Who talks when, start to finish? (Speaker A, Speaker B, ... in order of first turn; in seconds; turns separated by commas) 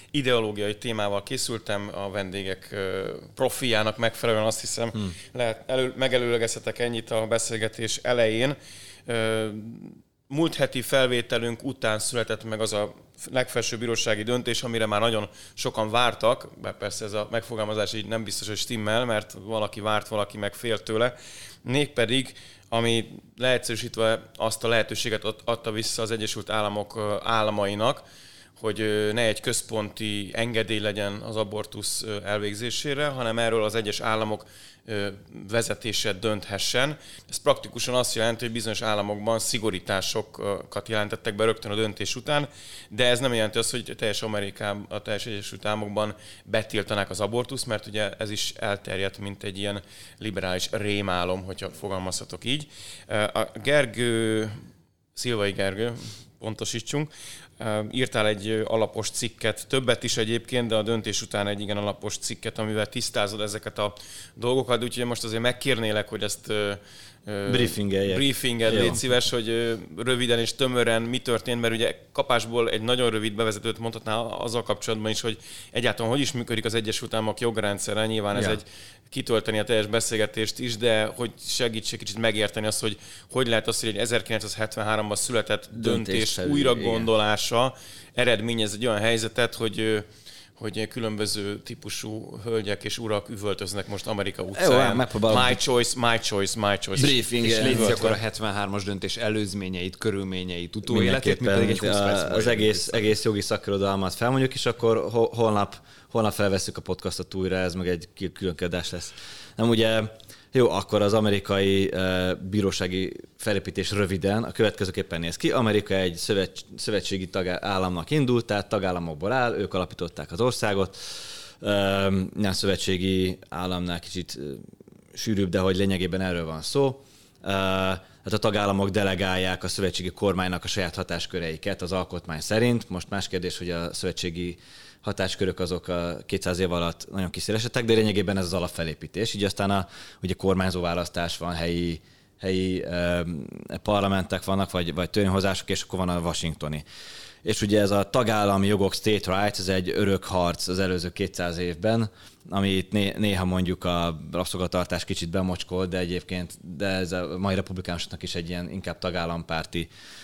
Speaker A: 0.1-28.0, Speaker A: 28.6-54.6, Speaker A: 55.1-90.1, Speaker B: 67.5-69.0, Speaker B: 78.3-78.6, Speaker B: 85.7-87.1, Speaker A: 90.6-97.2, Speaker B: 94.5-95.6, Speaker B: 97.0-98.2, Speaker C: 97.4-103.1, Speaker A: 97.7-98.0, Speaker B: 100.9-146.8, Speaker B: 147.4-159.9